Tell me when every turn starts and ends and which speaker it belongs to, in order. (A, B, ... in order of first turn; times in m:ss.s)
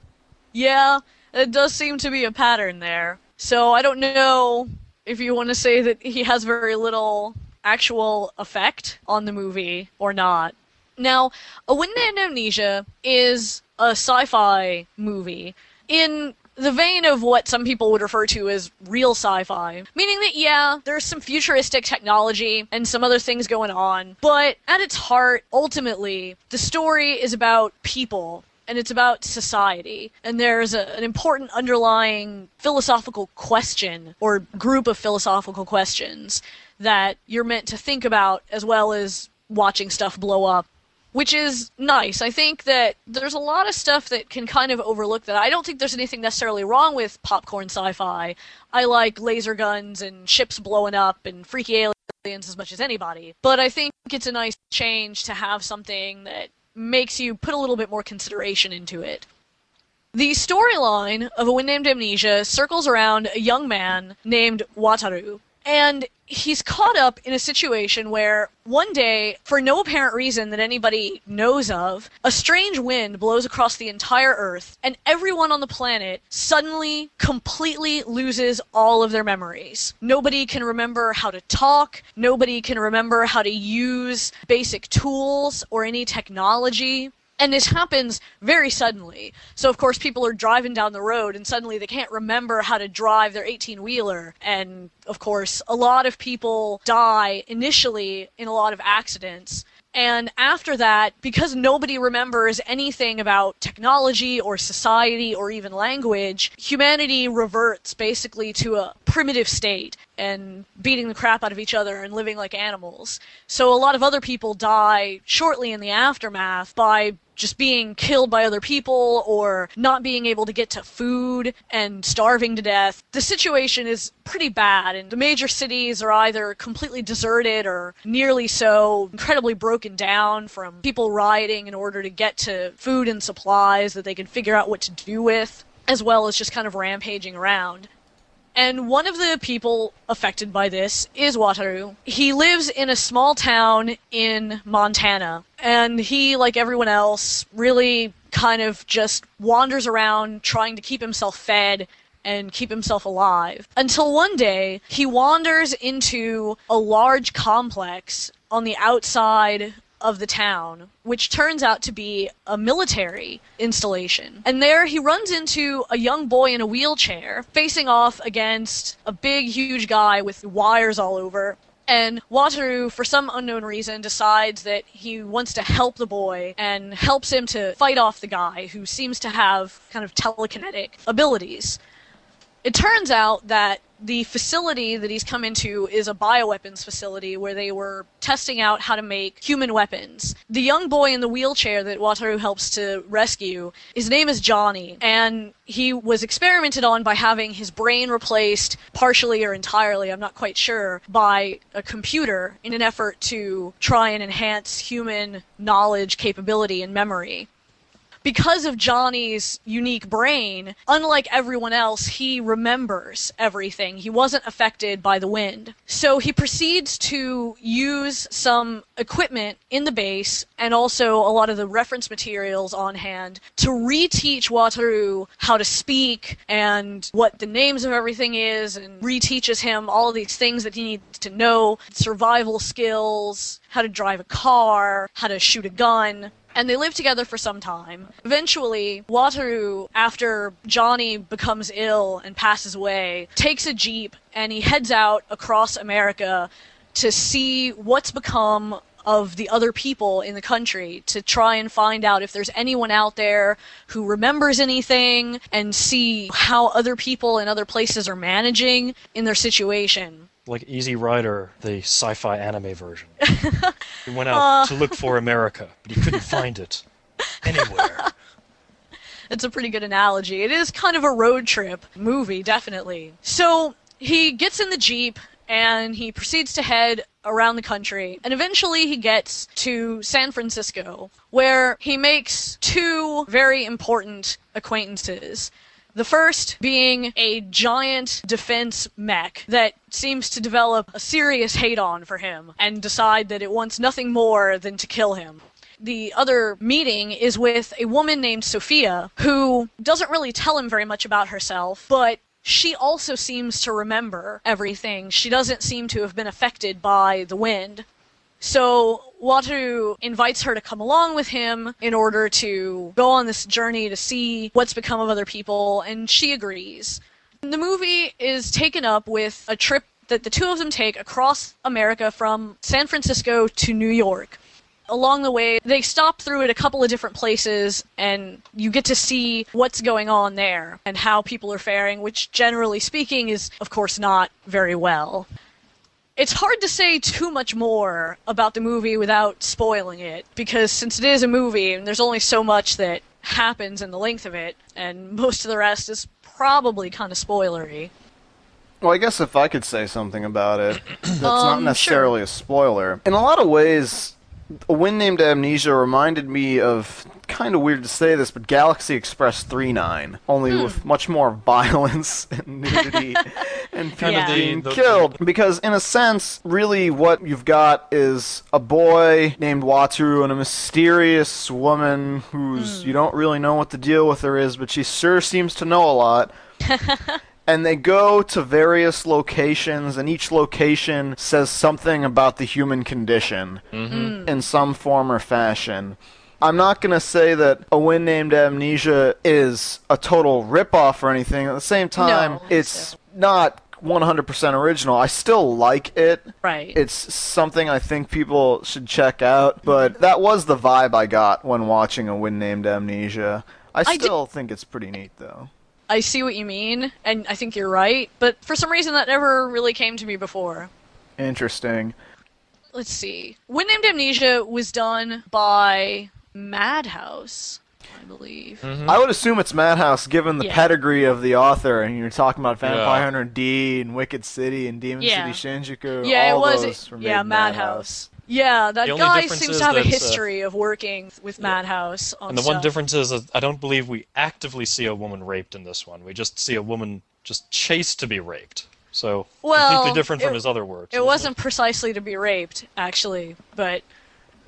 0:00.5-0:59.3 A
1:00.1-2:17.9 A
2:18.6-3:01.8 A
3:02.6-3:27.5 A
3:28.2-4:20.3 A
4:20.5-4:23.2 B
4:23.3-4:23.8 A
4:24.1-4:26.8 B
4:24.3-4:25.0 A
4:26.1-4:26.4 A
4:27.4-4:28.1 B
4:27.7-4:28.1 A
4:29.3-5:07.9 A
5:08.4-5:24.4 A
5:24.9-5:35.3 A
5:36.2-5:47.9 A
5:48.8-5:54.2 C
5:51.2-5:52.2 A
5:54.7-6:16.3 C
6:00.5-6:00.8 A
6:04.0-6:05.2 B
6:04.0-6:04.4 A
6:12.6-6:13.0 A
6:16.7-6:17.2 A
6:17.5-6:45.5 C
6:23.7-6:24.2 B
6:23.9-6:24.3 A
6:32.0-6:32.9 A
6:36.4-6:36.8 A
6:43.9-6:44.1 A
6:45.9-6:50.7 A
6:51.2-6:52.0 C
6:52.7-6:58.6 A
6:58.6-6:59.0 B
6:58.9-7:07.9 C
7:00.4-7:00.7 A
7:02.6-7:03.1 B
7:05.0-7:05.4 A
7:06.0-7:12.7 A
7:08.8-7:10.2 B
7:12.3-7:21.3 B
7:19.4-7:20.4 A
7:20.9-7:23.8 A